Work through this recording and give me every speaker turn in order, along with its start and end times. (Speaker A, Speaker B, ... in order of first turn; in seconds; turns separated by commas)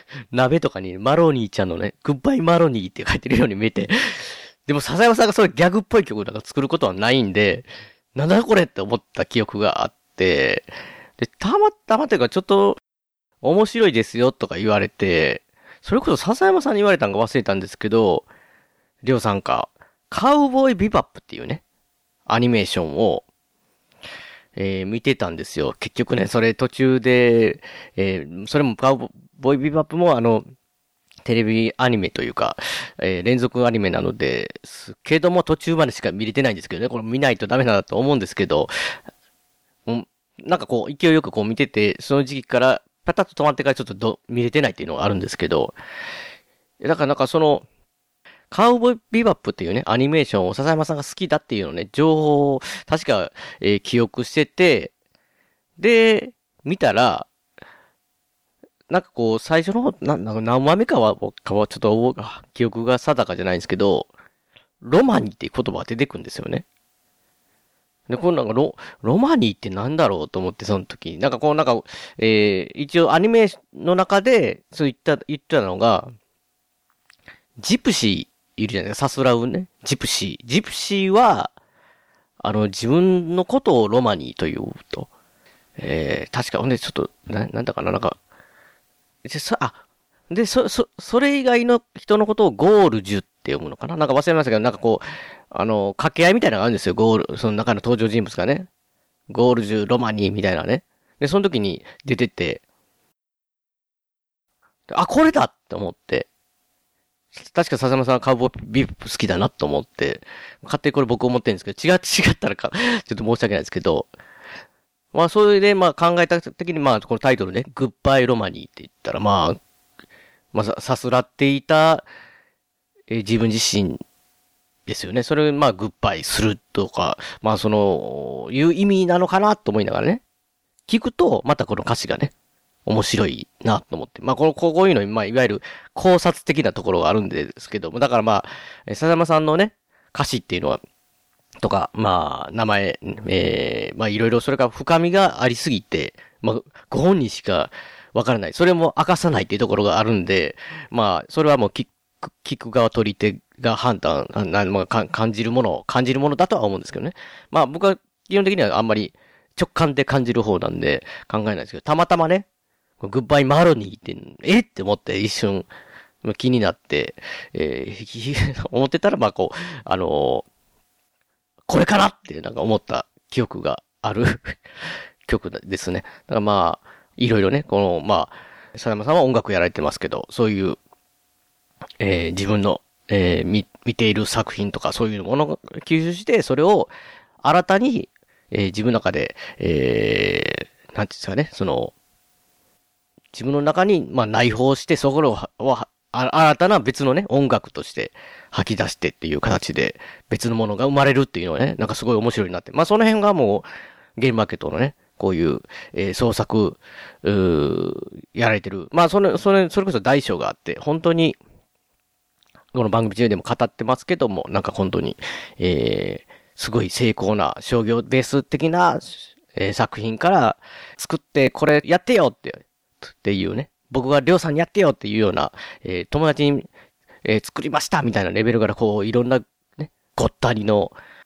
Speaker A: 0.3-12.8, Speaker A: 13.4-18.2, Speaker A: 19.0-21.6, Speaker A: 22.3-23.2, Speaker A: 24.6-30.5, Speaker A: 31.2-38.7, Speaker A: 39.9-45.8, Speaker A: 46.8-47.6, Speaker A: 48.5-54.9, Speaker A: 55.8-57.3, Speaker A: 58.9-64.1, Speaker A: 64.8-66.6, Speaker A: 68.1-76.1, Speaker A: 77.6-81.5, Speaker A: 82.4-85.1, Speaker A: 85.8-88.2, Speaker A: 89.2-89.8, Speaker A: 90.3-98.7, Speaker A: 99.3-102.6, Speaker A: 104.9-106.3, Speaker A: 107.3-114.1, Speaker A: 115.1-119.6, Speaker A: 120.5-122.0, Speaker A: 123.1-124.0, Speaker A: 124.8-130.2, Speaker A: 130.9-132.3, Speaker A: 132.8-140.8, Speaker A: 141.6-162.4, Speaker A: 163.0-165.7, Speaker A: 166.2-170.4, Speaker A: 171.7-174.6, Speaker A: 175.2-180.8, Speaker A: 182.0-186.9, Speaker A: 187.4-191.9, Speaker A: 193.3-211.4, Speaker A: 212.7-226.7, Speaker A: 227.2-230.9